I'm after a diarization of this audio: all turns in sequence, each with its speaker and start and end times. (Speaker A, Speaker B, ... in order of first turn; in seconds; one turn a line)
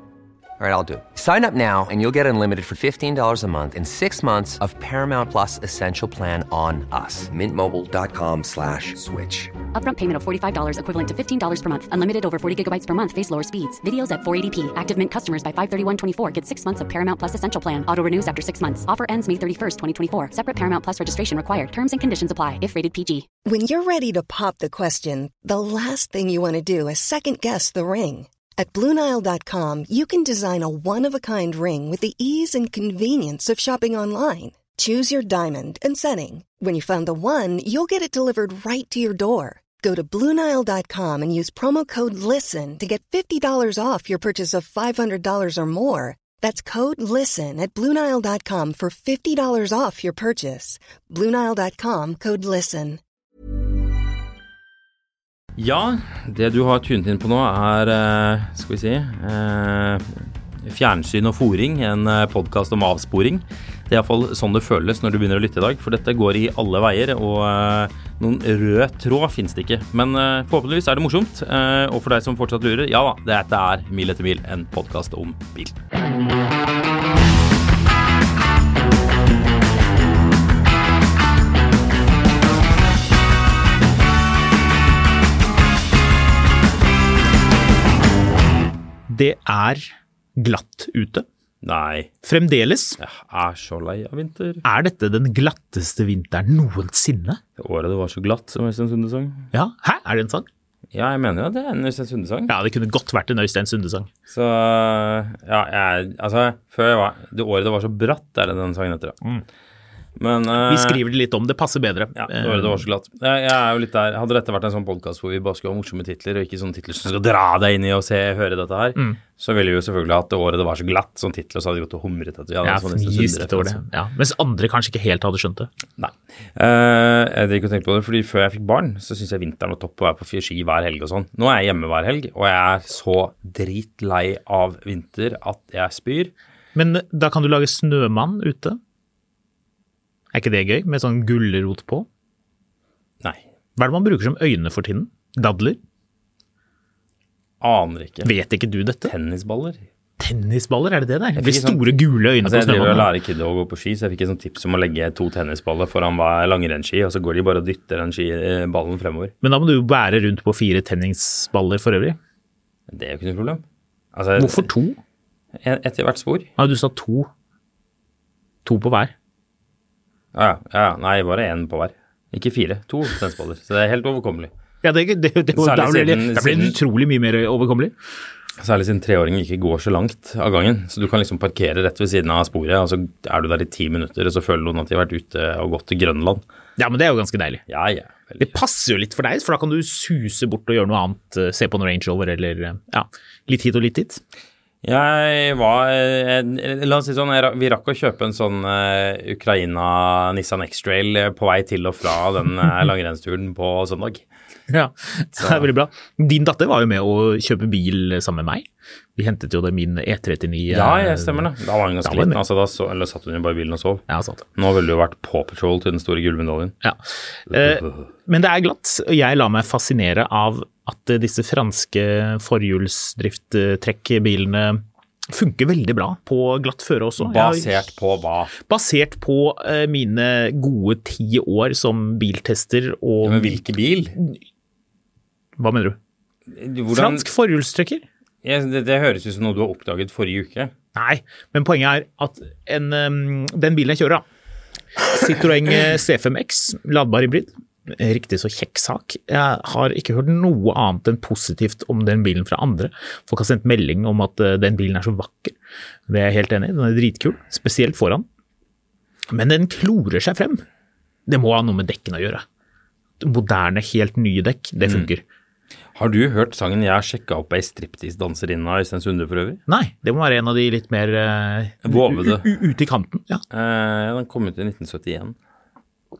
Speaker A: 0.6-9.5
Speaker B: 9.7-23.3
Speaker C: 23.4-53.0
Speaker D: 55.6-60.1
Speaker D: 60.6-75.8
Speaker E: 89.1-91.2
Speaker D: 91.6-92.1
Speaker E: 92.2-93.0
Speaker D: 93.0-94.6
Speaker E: 94.7-97.4
Speaker D: 97.6-99.5
Speaker E: 99.5-100.5
Speaker D: 100.9-102.5
Speaker E: 102.5-104.1
Speaker D: 104.3-109.2
Speaker D: 110.2-111.0
Speaker E: 110.6-112.8
Speaker D: 112.2-123.8
Speaker E: 122.7-125.7
Speaker D: 126.0-136.3
Speaker E: 136.8-138.8
Speaker E: 140.3-142.1
Speaker E: 143.8-145.8
Speaker D: 147.6-148.3
Speaker E: 148.2-149.1
Speaker D: 149.1-149.8
Speaker E: 150.2-153.1
Speaker D: 151.4-151.8
Speaker D: 152.4-159.3
Speaker E: 159.4-162.2
Speaker D: 162.9-164.7
Speaker E: 164.4-165.0
Speaker D: 165.6-166.5
Speaker E: 166.6-167.3
Speaker E: 168.7-169.1
Speaker D: 170.3-174.5
Speaker E: 174.8-177.9
Speaker D: 175.6-176.8
Speaker D: 178.6-186.4
Speaker E: 186.8-187.6
Speaker D: 187.7-188.5
Speaker E: 188.4-194.2
Speaker D: 194.8-204.2
Speaker E: 204.7-211.5
Speaker D: 205.4-205.7
Speaker D: 210.7-216.8
Speaker E: 212.1-212.4
Speaker E: 214.1-214.4
Speaker E: 216.8-227.7
Speaker D: 217.5-218.1
Speaker D: 227.2-228.6
Speaker E: 228.6-233.6
Speaker D: 233.2-234.2
Speaker E: 235.6-236.0
Speaker D: 236.5-237.3
Speaker E: 236.9-238.0
Speaker D: 238.4-240.7
Speaker E: 240.9-244.2
Speaker E: 245.0-255.6
Speaker E: 256.1-258.3
Speaker E: 259.3-260.6
Speaker E: 261.3-262.4
Speaker E: 263.2-265.2
Speaker D: 264.8-265.1
Speaker D: 266.0-269.6
Speaker E: 269.7-273.4
Speaker D: 271.9-272.5
Speaker D: 273.5-275.4